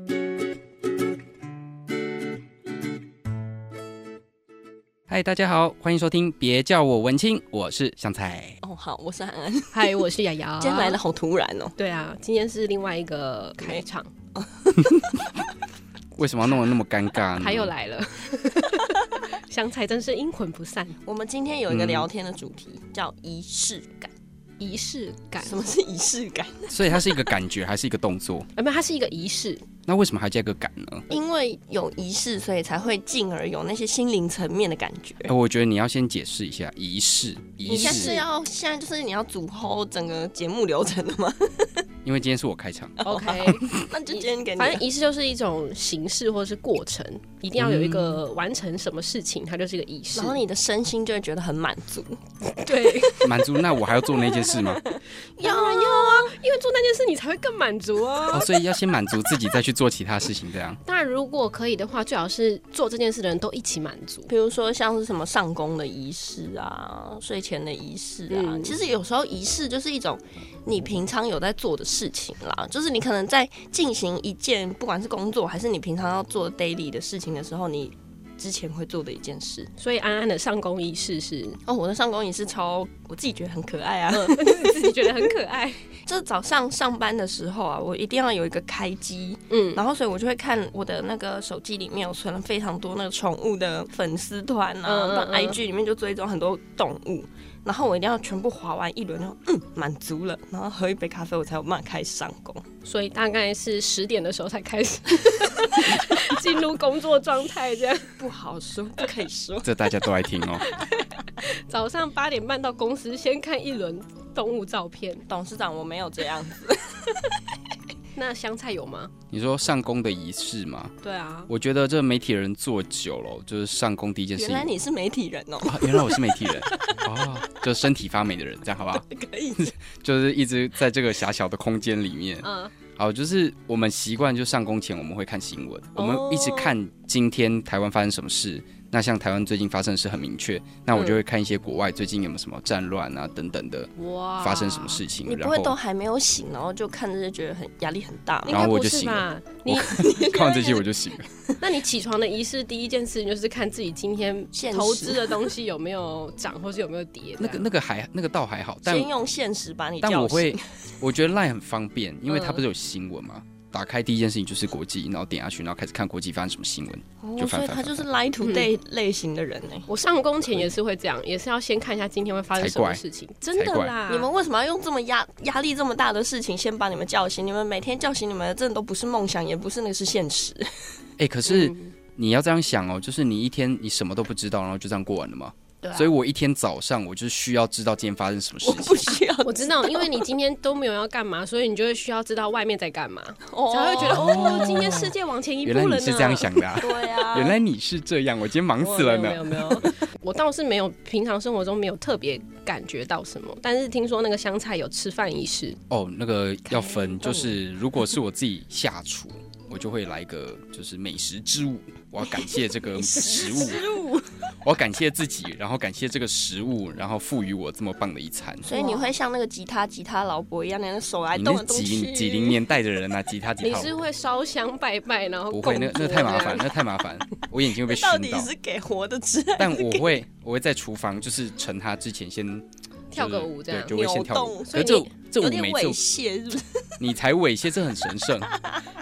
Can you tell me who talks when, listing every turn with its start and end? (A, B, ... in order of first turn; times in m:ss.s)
0:05.1-0:08.6 A
0:08.6-0:10.0 B
0:09.7-0:11.0 C
0:10.6-0:11.8 B
0:11.8-0:14.1 C
0:13.6-0:13.8 B
0:14.4-0:15.0 B
0:16.2-0:17.7 A
0:17.3-0:21.0 C
0:21.1-0:24.1 B
0:21.7-0:22.1 A
0:24.6-0:25.6 C
0:25.4-0:26.8 B
0:26.7-0:28.5 A
0:28.6-0:29.6 C
0:29.9-0:31.1 A
0:31.1-0:35.3 B
0:35.3-0:38.1 A
0:37.7-0:38.2 C
0:37.7-0:41.8 B
0:42.0-0:43.0 A
0:43.0-0:44.8 B
0:43.0-0:50.4 C
0:47.6-0:48.2 A
0:50.2-0:52.2 B
0:52.6-0:53.3 C
0:53.2-0:54.8 A
0:54.5-0:56.4 B
0:55.4-0:58.5 C
0:58.3-1:00.8 A
1:00.9-1:04.3 C
1:04.3-1:19.7 B
1:08.3-1:08.8 C
1:19.8-1:21.6 C
1:21.7-1:25.3 B
1:24.1-1:25.8 C
1:26.1-1:42.6 B
1:29.5-1:29.8 C
1:34.9-1:35.6 C
1:42.8-1:48.1 C
1:48.2-1:49.7 B
1:49.6-1:50.7 A
1:50.6-1:55.2 C
1:55.3-1:57.4 B
1:58.2-1:59.1 C
1:59.3-2:00.9 A
2:01.0-2:01.5 C
2:01.5-2:04.7 A
2:04.4-2:06.2 B
2:05.6-2:09.0 A
2:09.0-2:09.7 B
2:09.6-2:25.8 A
2:12.4-2:12.7 C
2:16.0-2:16.7 C
2:24.0-2:25.0 C
2:25.2-2:28.7 B
2:28.5-2:30.6 C
2:28.5-2:31.3 A
2:29.9-2:30.8 B
2:31.6-2:37.6 C
2:34.5-2:35.5 B
2:37.4-2:39.1 A
2:38.8-2:40.6 B
2:40.0-2:48.0 A
2:42.3-2:42.6 C
2:47.2-2:49.9 B
2:48.4-2:48.7 C
2:49.9-2:54.3 C
2:52.6-2:53.0 A
2:53.5-2:54.0 A
2:54.1-3:00.7 B
3:01.2-3:09.1 A
3:01.5-3:01.9 C
3:05.8-3:06.1 B
3:08.6-3:10.3 B
3:09.4-3:16.7 C
3:13.5-3:14.5 B
3:14.0-3:19.9 A
3:16.8-3:17.6 B
3:18.8-3:25.8 C
3:25.9-3:33.8 A
3:26.8-3:27.5 B
3:32.9-3:34.3 B
3:34.6-3:38.7 A
3:38.6-3:42.6 B
3:38.7-3:39.1 C
3:41.4-3:43.9 A
3:43.6-3:46.7 C
3:45.5-3:48.5 A
3:47.9-3:50.1 B
3:49.6-3:56.0 A
3:53.1-3:54.0 C
3:53.8-3:56.9 B
3:54.7-3:55.1 C
3:57.0-3:58.5 A